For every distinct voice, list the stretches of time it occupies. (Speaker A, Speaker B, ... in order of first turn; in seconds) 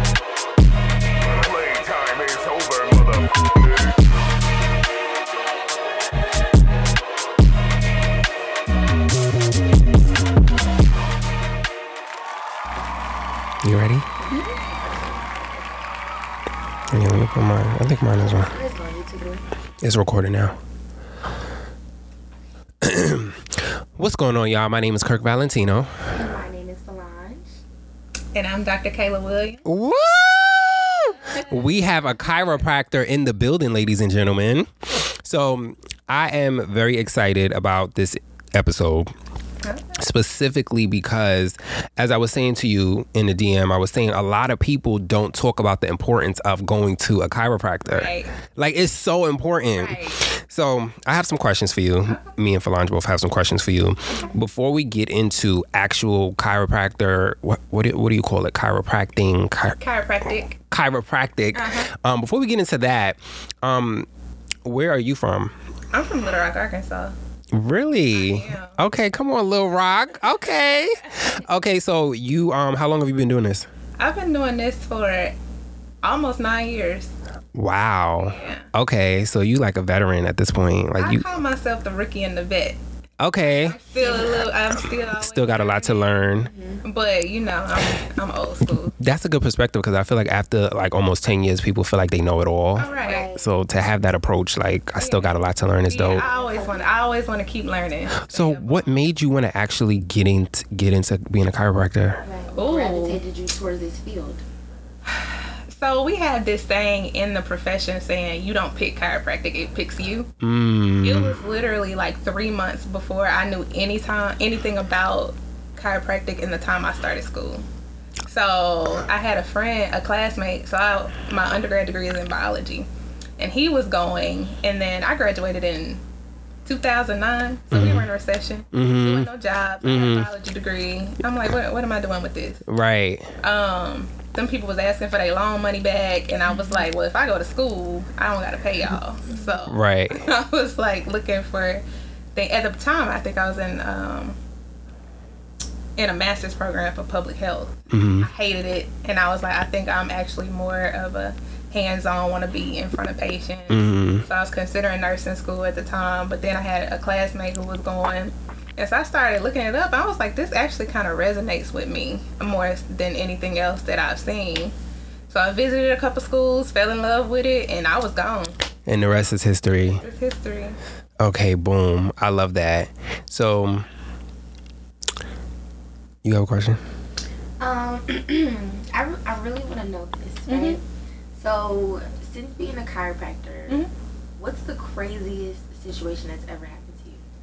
Speaker A: 1.2-3.4, 13.6-14.1, 16.9-18.5, 19.8-20.6, 22.8-25.9, 29.7-39.1, 40.0-59.8, 60.7-64.1, 64.6-65.5, 67.5-73.7, 77.5-81.2, 83.2-83.8, 85.1-86.5, 89.0-96.3, 98.2-102.2, 110.4-111.4, 127.7-128.1, 128.7-129.3, 129.8-130.3, 132.7-133.3, 139.7-140.2, 147.9-148.3, 153.7-154.2, 168.9-170.0, 171.2-173.9, 176.2-176.8
Speaker B: 14.2-15.7, 18.2-19.4, 26.1-27.5, 83.9-84.4, 86.4-86.8, 92.9-93.5, 96.2-97.0, 102.2-104.4, 136.4-136.9, 139.3-139.7, 177.6-183.9, 184.4-187.2
Speaker C: 14.3-14.6, 28.3-29.6, 39.6-40.0, 47.9-48.3, 49.7-50.2, 52.0-52.3, 59.8-60.6, 61.5-61.9, 65.9-67.1, 68.1-68.8, 74.0-75.3, 76.0-77.1, 78.2-78.7, 81.0-82.8, 83.4-86.2, 86.8-89.0, 92.7-93.3, 95.0-99.0, 102.5-103.2, 105.1-110.3, 111.0-117.6, 118.2-126.0, 126.6-132.6, 133.4-141.8, 142.3-144.4, 146.0-164.8, 165.3-168.6, 169.8-170.8, 180.5-180.8